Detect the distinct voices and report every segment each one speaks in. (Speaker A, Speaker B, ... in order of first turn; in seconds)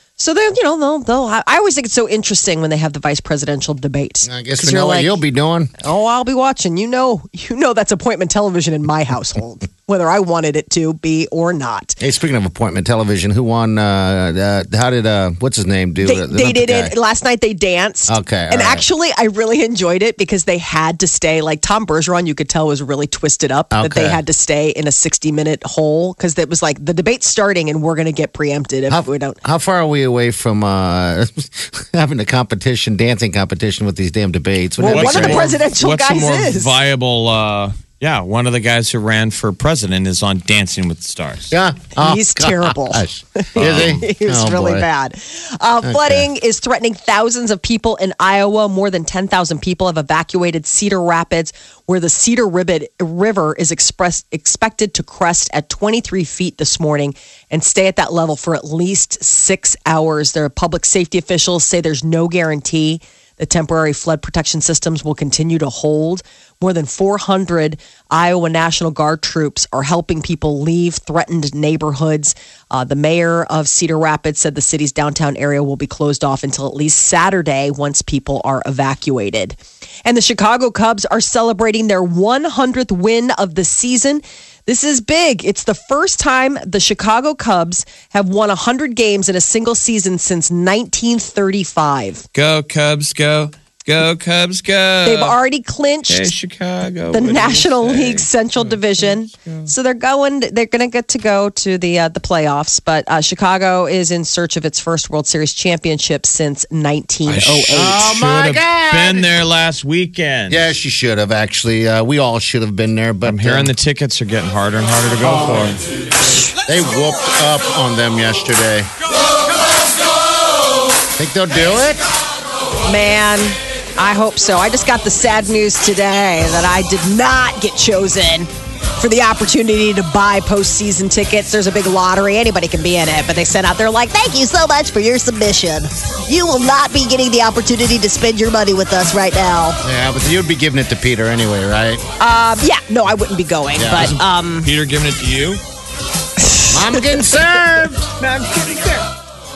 Speaker A: 0.2-5.2, 5.8-12.0, 16.0-29.4, 34.8-36.7, 42.0-92.2, 95.0-96.3, 97.1-108.0, 122.8-139.8, 142.2-144.7
Speaker B: 4.2-5.7, 12.0-16.9, 18.1-18.8, 23.7-24.2, 28.9-35.5, 41.5-44.9, 45.8-46.3, 107.7-109.3, 110.5-113.7, 115.2-115.8, 116.7-118.9, 121.2-122.0, 139.8-142.0, 143.8-144.2, 146.7-148.1
Speaker C: 34.9-41.5, 43.5-44.0, 92.3-95.4, 96.1-99.7, 107.3-110.7, 113.3-115.8, 144.0-145.6, 148.2-149.1